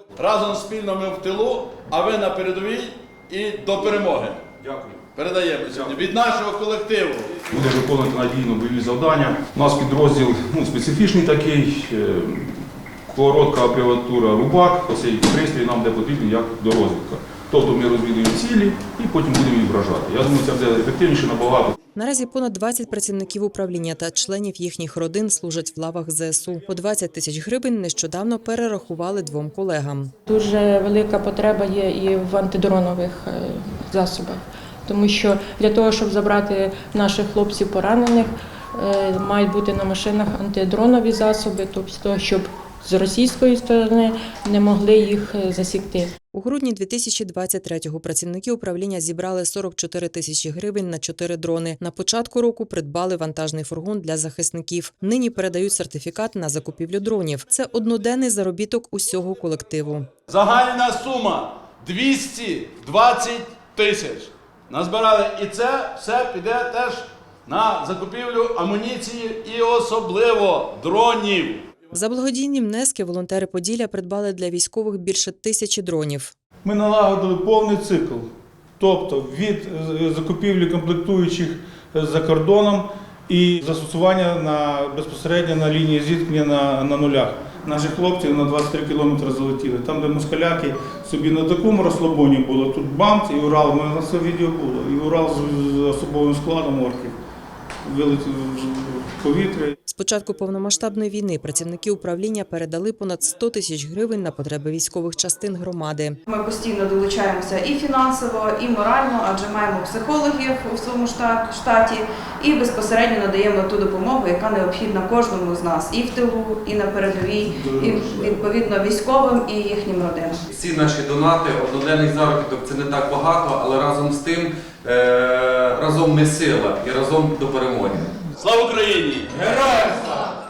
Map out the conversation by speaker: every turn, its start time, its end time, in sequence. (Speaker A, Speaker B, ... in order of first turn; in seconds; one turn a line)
Speaker A: 0.2-7.5
Speaker B: 7.5-21.7
Speaker C: 21.9-30.1
Speaker D: 30.3-46.1
Speaker C: 46.3-60.1
Speaker A: 60.3-71.6
Speaker C: 71.9-76.3
Speaker E: 76.6-78.2
Speaker E: 78.8-97.2
Speaker E: 97.9-99.7
Speaker C: 99.9-106.2
Speaker F: 106.3-120.4
Speaker G: 120.6-128.0
Speaker A: 128.4-130.2